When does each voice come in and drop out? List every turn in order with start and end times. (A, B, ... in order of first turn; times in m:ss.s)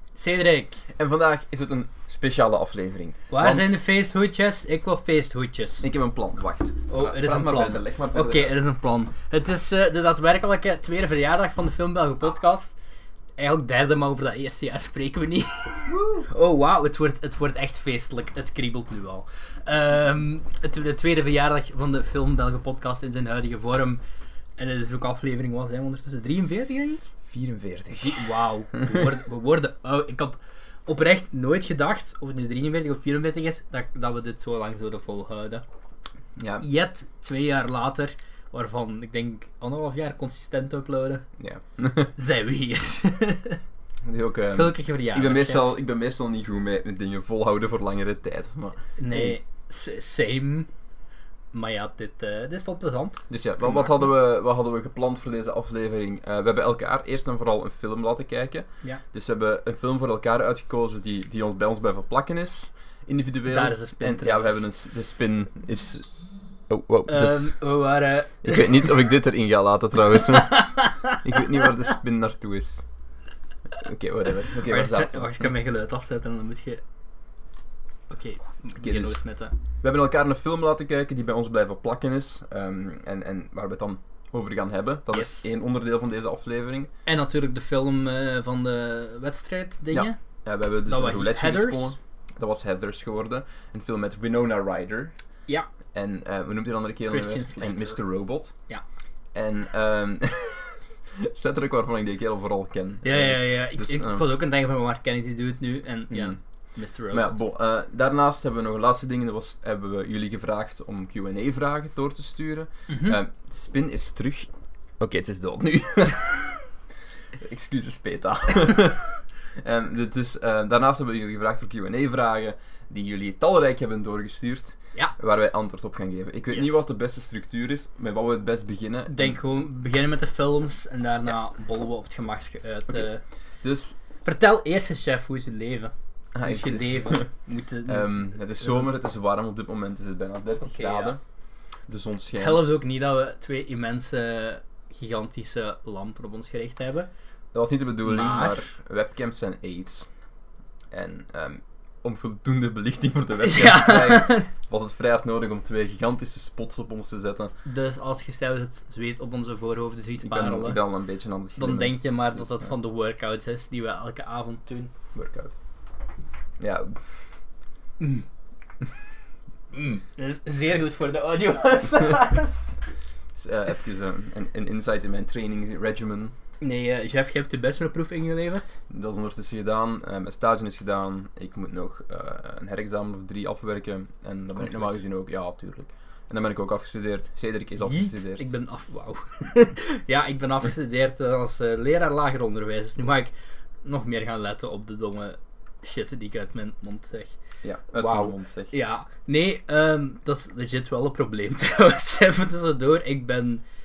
0:00.2-0:00.8 A
0:01.0-0:03.8 B
0:03.3-0:05.8 A
0:05.8-0:08.6 B
0:06.9-0:12.7 A
0:13.4-0:24.0 A
0:15.9-0:16.2 B
0:24.6-0:27.1 A
0:27.2-0:29.0 B
0:28.0-0:35.6 A
0:36.4-0:36.6 B
0:36.6-0:41.2 A
0:41.4-0:42.1 B
0:42.2-0:43.6 A
0:44.0-0:49.4 B
0:44.5-0:45.6 A
0:49.0-0:50.7 A
0:51.5-0:54.1 A
0:53.3-1:06.1 B
1:03.5-1:04.6 A
1:06.7-1:07.6 B
1:07.1-1:08.9 A
1:08.4-1:12.8 B
1:10.5-1:11.2 A
1:13.7-1:15.5 B
1:14.6-1:16.8 A
1:18.1-1:19.5 A
1:18.8-1:19.2 B
1:19.8-1:26.9 B
1:25.1-1:25.5 A
1:27.0-1:30.2 A
1:29.9-1:35.1 B
1:30.9-1:31.9 A
1:35.9-1:38.5 B
1:37.1-1:38.0 A
1:39.3-1:44.2 B
1:43.0-1:47.4 A
1:46.1-1:46.4 B
1:47.1-1:56.6 B
1:52.9-1:53.2 A
1:57.4-2:09.4 B
2:06.5-2:06.8 A
2:09.1-2:13.2 A
2:13.6-2:14.0 B
2:14.2-2:18.9 A
2:16.3-2:17.3 B
2:17.8-2:21.2 B
2:20.6-2:21.1 A
2:21.9-2:22.7 B
2:22.3-2:27.1 A
2:27.5-2:30.1 B
2:28.0-2:28.6 A
2:30.9-2:37.5 B
2:33.4-2:34.5 A
2:37.6-2:40.8 A
2:40.2-2:42.7 B
2:41.6-2:44.9 A
2:45.1-2:45.5 B
2:46.6-2:47.0 B
2:48.0-2:48.2 A
2:49.7-2:52.8 A
2:53.3-2:56.3 B
2:56.6-2:58.8 A
2:58.9-3:08.5 B
3:04.6-3:05.0 A
3:07.8-3:13.3 A
3:13.8-3:17.4 A
3:17.6-3:18.7 B
3:17.9-3:23.6 A